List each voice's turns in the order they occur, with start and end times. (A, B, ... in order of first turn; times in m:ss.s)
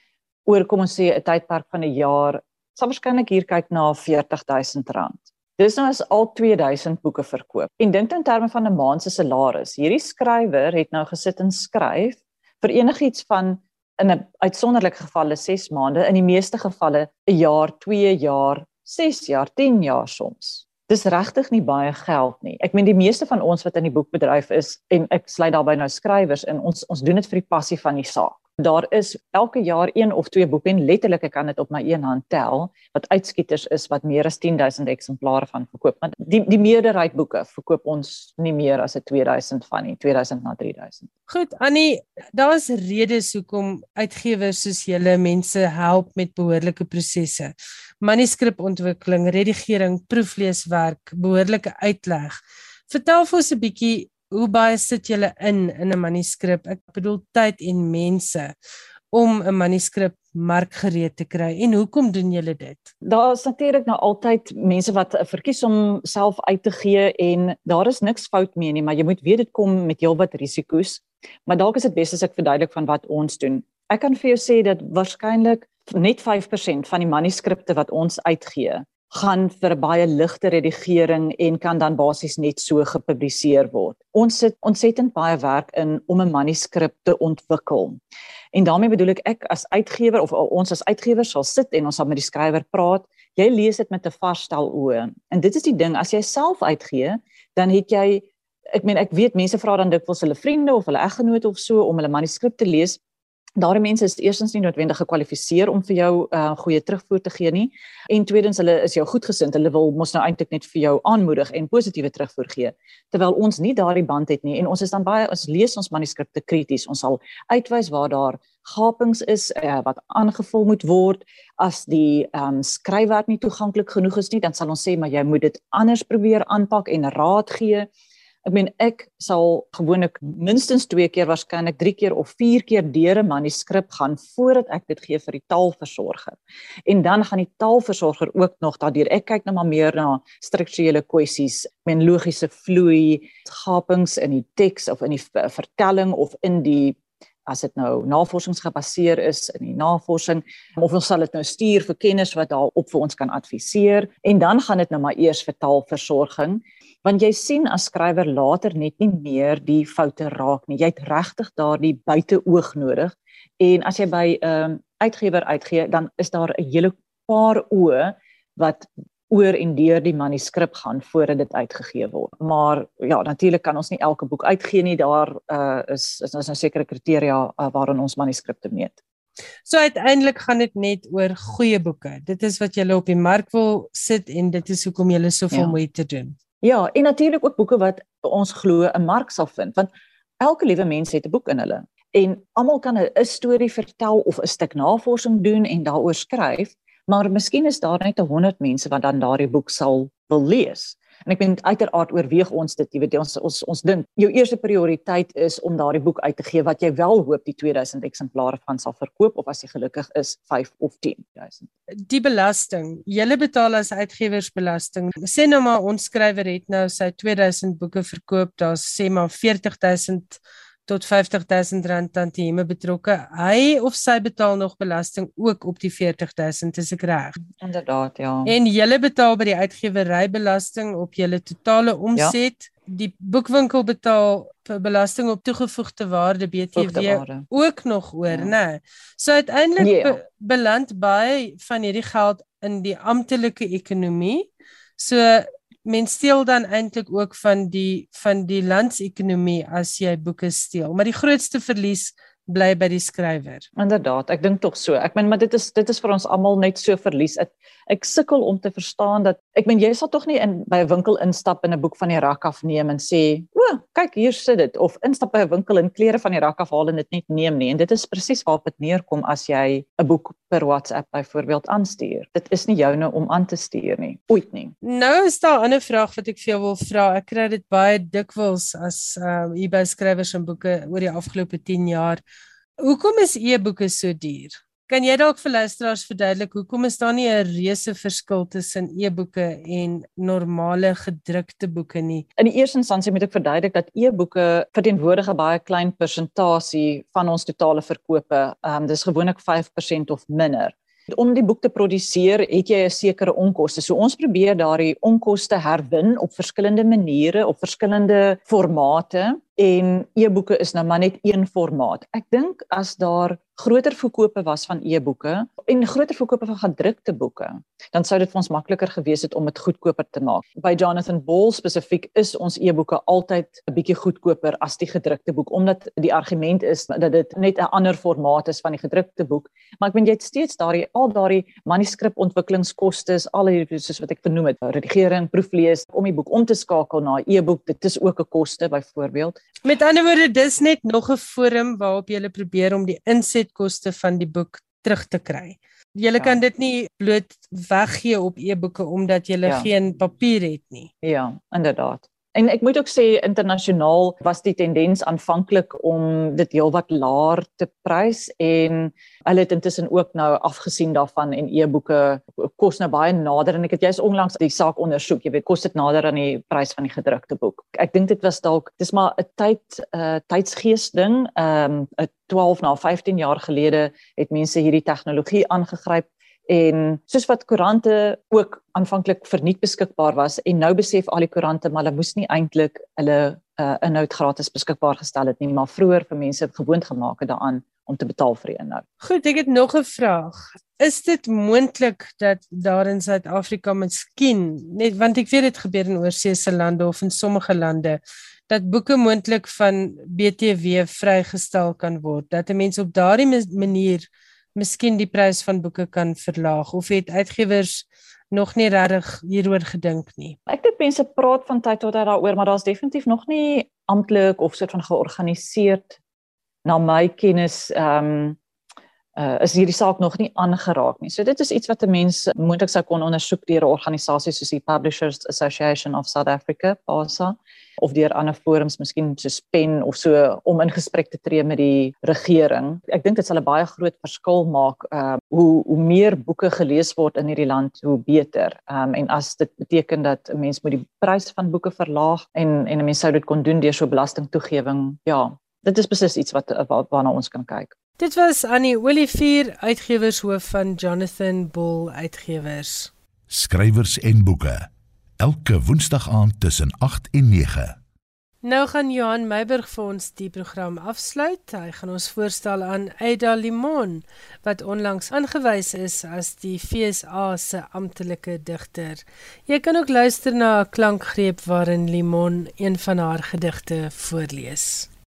0:00.5-0:41.1 A
0:41.3-0:58.6 B
0:59.1-1:02.9 B
1:03.0-1:28.0 A
1:28.5-1:43.0 A
1:43.6-2:07.9 A
2:08.5-2:59.0 A
2:59.7-3:06.4 B
3:05.5-3:05.8 A
3:06.6-3:09.9 A
3:10.4-3:31.7 A
3:32.1-3:47.4 B
3:47.6-3:48.6 A
3:48.4-4:13.6 B
3:56.8-3:57.4 A
3:58.3-3:58.5 A
3:59.8-4:00.2 A
4:13.8-4:34.7 A
4:34.8-4:42.2 B
4:42.8-4:52.3 B
4:52.4-5:39.4 A
5:39.6-5:50.9 B
5:49.4-5:49.7 A
5:51.0-6:28.8 A
6:29.0-6:50.4 B
6:50.5-6:56.0 A
6:56.6-6:58.4 A
6:59.2-7:27.7 A
7:28.0-7:32.9 B
7:33.3-7:34.7 C
7:35.2-7:37.8 C
7:38.4-7:54.9 B